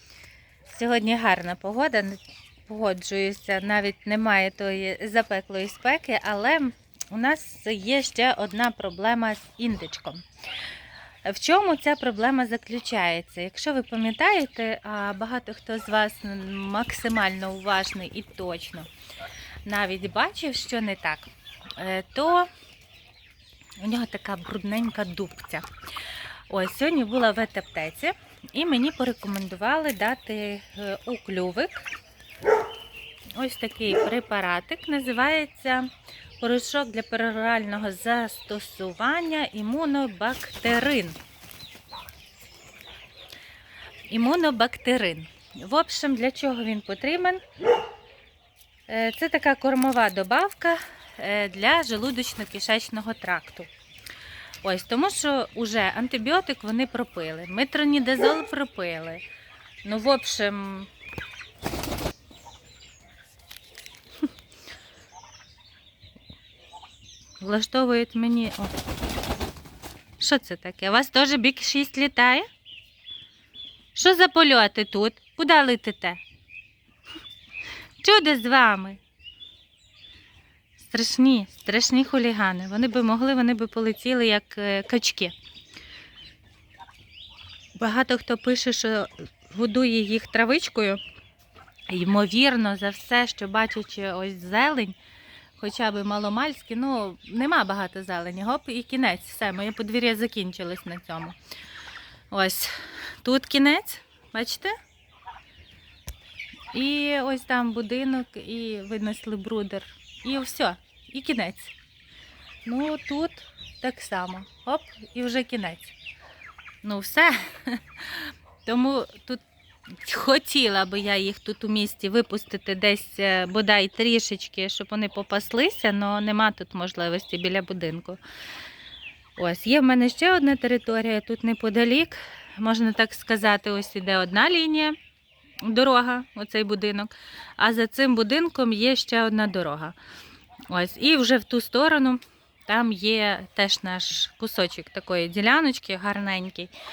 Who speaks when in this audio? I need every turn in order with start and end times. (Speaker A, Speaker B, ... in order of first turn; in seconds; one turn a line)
Speaker A: 0.7-10.2
Speaker A: 11.2-18.9
Speaker A: 19.6-22.5
Speaker A: 23.8-25.6
Speaker A: 26.5-31.9
Speaker A: 33.4-35.9
Speaker A: 36.4-41.2
Speaker A: 44.1-47.4
Speaker A: 48.9-53.7
Speaker A: 54.6-59.2
Speaker A: 59.8-60.9
Speaker A: 67.4-68.7
Speaker A: 70.2-72.5
Speaker A: 73.9-76.2
Speaker A: 78.0-79.0
Speaker A: 80.8-85.3
Speaker A: 87.8-91.0
Speaker A: 91.9-95.0
Speaker A: 95.6-101.3
Speaker A: 102.3-104.7
Speaker A: 106.7-111.7
Speaker A: 112.6-115.9
Speaker A: 116.8-128.2
Speaker A: 129.4-134.9
Speaker A: 135.6-139.9
Speaker A: 140.7-146.7